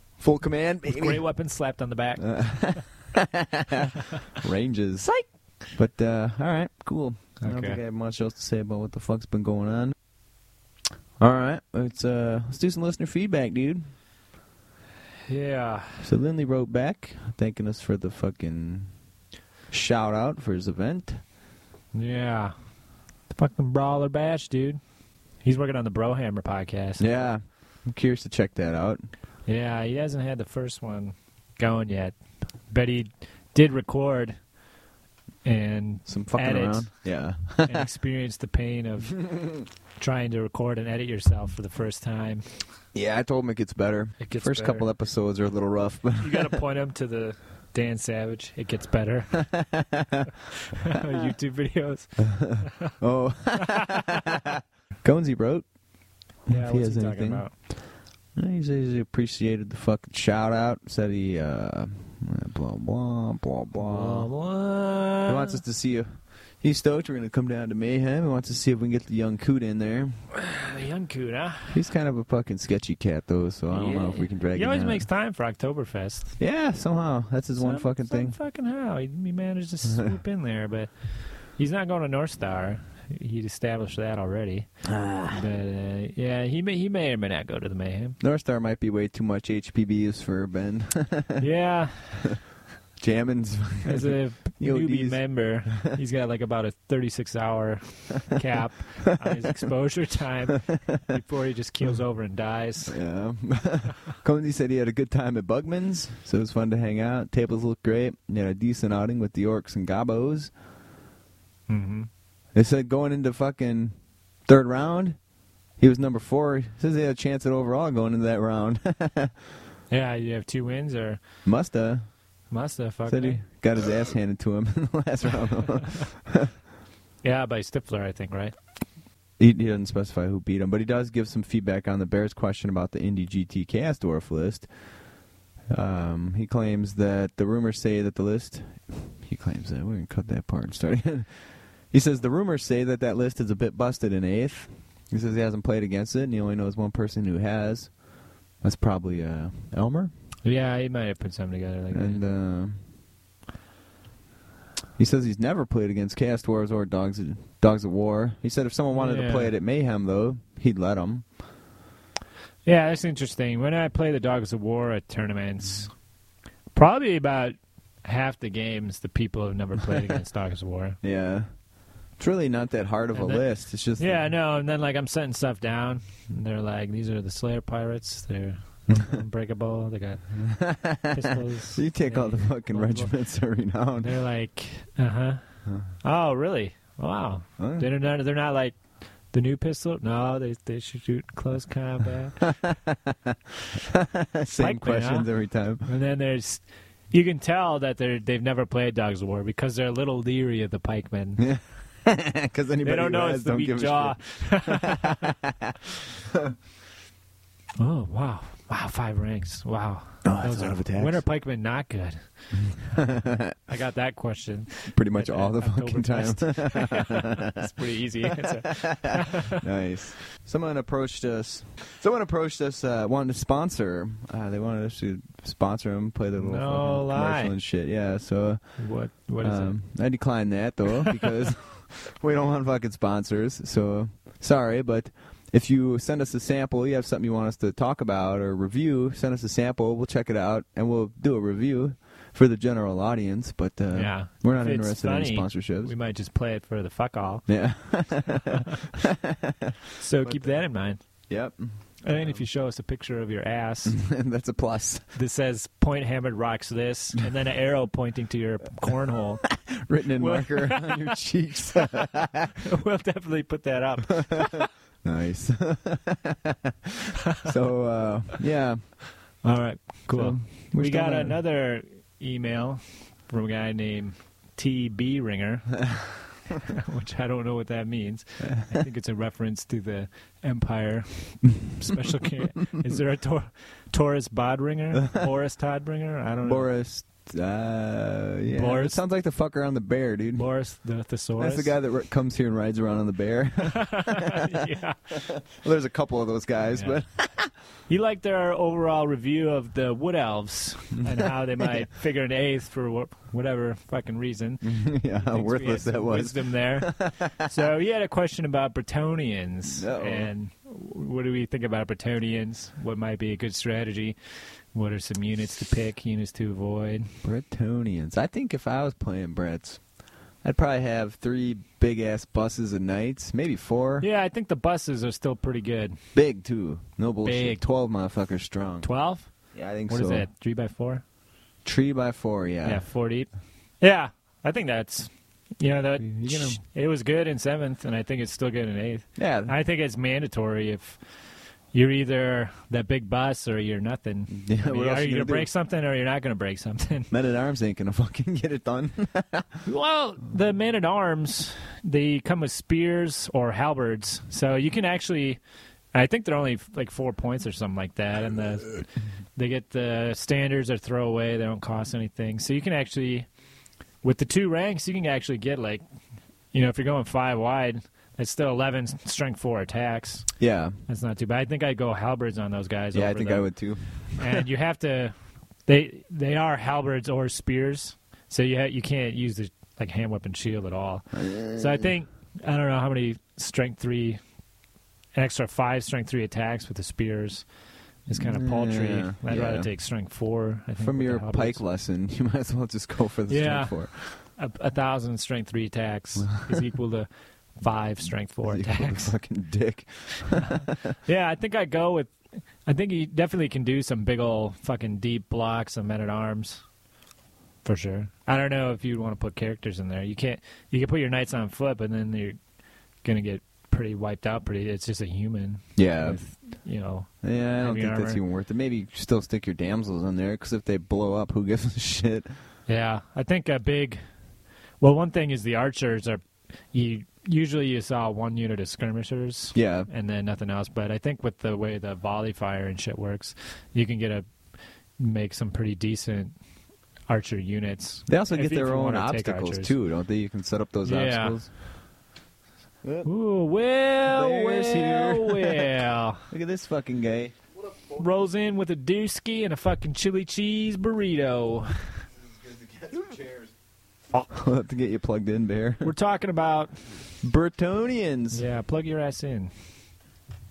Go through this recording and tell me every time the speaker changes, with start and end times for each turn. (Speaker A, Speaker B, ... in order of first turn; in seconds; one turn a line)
Speaker A: 0.2-1.2
Speaker B: 0.9-2.8
Speaker A: 2.2-5.1
Speaker A: 5.7-9.9
Speaker B: 7.4-7.8
Speaker A: 11.2-13.9
Speaker B: 15.3-16.0
Speaker A: 16.0-18.9
Speaker A: 19.7-21.2
Speaker B: 21.9-22.5
Speaker B: 23.3-24.8
Speaker B: 25.4-27.0
Speaker A: 27.0-29.1
Speaker B: 29.5-32.2
Speaker B: 32.7-34.4
Speaker B: 35.4-37.0
Speaker A: 36.1-37.9
Speaker B: 37.6-39.5
Speaker B: 40.0-42.6
Speaker A: 42.9-46.6
Speaker B: 44.2-44.9
Speaker B: 46.2-49.5
Speaker A: 49.5-50.3
Speaker B: 50.8-52.9
Speaker A: 52.2-55.7
Speaker B: 53.8-54.1
Speaker A: 56.5-57.8
Speaker B: 56.5-57.5
Speaker A: 58.4-64.3
Speaker B: 63.8-65.6
Speaker A: 65.2-70.2
Speaker B: 70.4-71.8
Speaker A: 71.7-75.1
Speaker B: 73.7-76.4
Speaker A: 76.4-78.4
Speaker B: 77.6-88.2
Speaker A: 84.9-85.4
Speaker A: 88.2-91.5
Speaker B: 91.4-92.3
Speaker A: 93.0-95.9
Speaker B: 93.8-103.0
Speaker A: 102.9-110.5
Speaker B: 111.7-112.1
Speaker A: 112.5-115.2
Speaker A: 115.8-119.3
Speaker B: 119.9-121.2
Speaker A: 121.4-122.1
Speaker B: 122.5-123.4
Speaker A: 123.1-126.5
Speaker B: 127.2-128.6
Speaker A: 129.4-134.7
Speaker A: 135.7-148.0
Speaker A: 148.6-150.1
Speaker B: 150.4-152.2
Speaker A: 151.9-152.8
Speaker A: 155.0-161.3
Speaker B: 158.9-159.5
Speaker B: 162.7-165.9
Speaker B: 166.8-171.0
Speaker A: 171.0-171.5
Speaker A: 172.2-174.3
Speaker B: 173.1-180.4
Speaker A: 178.9-179.2
Speaker A: 180.4-184.1
Speaker B: 181.1-183.2
Speaker B: 184.0-185.4
Speaker B: 186.0-188.8
Speaker A: 187.6-187.9
Speaker B: 189.3-192.5
Speaker A: 192.6-195.9
Speaker B: 194.6-195.3
Speaker B: 195.8-201.4
Speaker A: 201.4-205.7
Speaker B: 202.8-205.2
Speaker B: 207.8-212.8
Speaker A: 210.2-211.2
Speaker A: 213.0-213.5
Speaker B: 213.7-219.6
Speaker A: 214.9-217.5
Speaker A: 218.7-245.9
Speaker B: 226.4-227.5
Speaker B: 228.8-229.8
Speaker B: 243.9-248.6
Speaker A: 247.5-250.6
Speaker B: 250.0-251.0
Speaker A: 251.3-252.4
Speaker B: 252.0-254.0
Speaker A: 253.9-255.1
Speaker B: 255.1-259.6
Speaker A: 259.7-262.5
Speaker B: 260.2-261.1
Speaker B: 262.6-264.7
Speaker A: 265.0-269.0
Speaker B: 269.4-276.1
Speaker A: 270.1-271.4
Speaker B: 276.6-286.7
Speaker A: 286.4-290.5
Speaker B: 288.5-289.0
Speaker B: 290.4-291.8
Speaker A: 291.4-294.4
Speaker B: 293.7-295.0
Speaker A: 295.3-297.5
Speaker B: 296.7-297.0
Speaker B: 297.9-314.2
Speaker A: 301.6-301.9
Speaker A: 304.6-307.3
Speaker A: 309.7-310.3
Speaker B: 314.7-317.1
Speaker A: 317.2-319.8
Speaker A: 320.4-324.1
Speaker B: 324.0-326.0
Speaker A: 326.1-328.9
Speaker B: 327.2-327.6
Speaker B: 328.8-329.3
Speaker A: 329.5-330.3
Speaker B: 329.9-331.0
Speaker A: 331.6-332.9
Speaker B: 332.6-333.3
Speaker B: 333.8-341.0
Speaker A: 336.0-336.6
Speaker A: 339.2-339.6
Speaker B: 341.7-347.1
Speaker A: 344.3-345.5
Speaker A: 347.1-349.6
Speaker B: 349.6-355.4
Speaker B: 355.9-363.3
Speaker B: 364.0-365.8
Speaker B: 366.5-370.3
Speaker A: 370.4-370.8
Speaker B: 370.9-373.5
Speaker A: 372.9-374.4
Speaker B: 374.2-375.1
Speaker B: 375.7-384.2
Speaker A: 381.1-381.9
Speaker B: 385.1-387.5
Speaker B: 388.1-391.6
Speaker A: 388.1-389.7
Speaker A: 390.8-394.2
Speaker B: 393.3-399.1
Speaker A: 396.2-396.6
Speaker A: 398.4-400.7
Speaker B: 400.6-406.6
Speaker B: 407.6-412.4
Speaker B: 413.0-418.2
Speaker A: 415.8-416.2
Speaker A: 417.2-422.3
Speaker B: 422.7-424.0
Speaker B: 424.8-434.3
Speaker A: 429.5-429.9
Speaker B: 435.0-436.4
Speaker B: 437.1-439.8
Speaker A: 438.1-441.5
Speaker B: 440.9-441.4
Speaker B: 443.0-446.3
Speaker A: 444.1-445.7
Speaker A: 446.3-447.4
Speaker B: 447.9-451.9
Speaker A: 452.3-453.5
Speaker A: 454.3-455.9
Speaker B: 455.8-456.9
Speaker A: 457.2-458.5
Speaker B: 458.3-459.5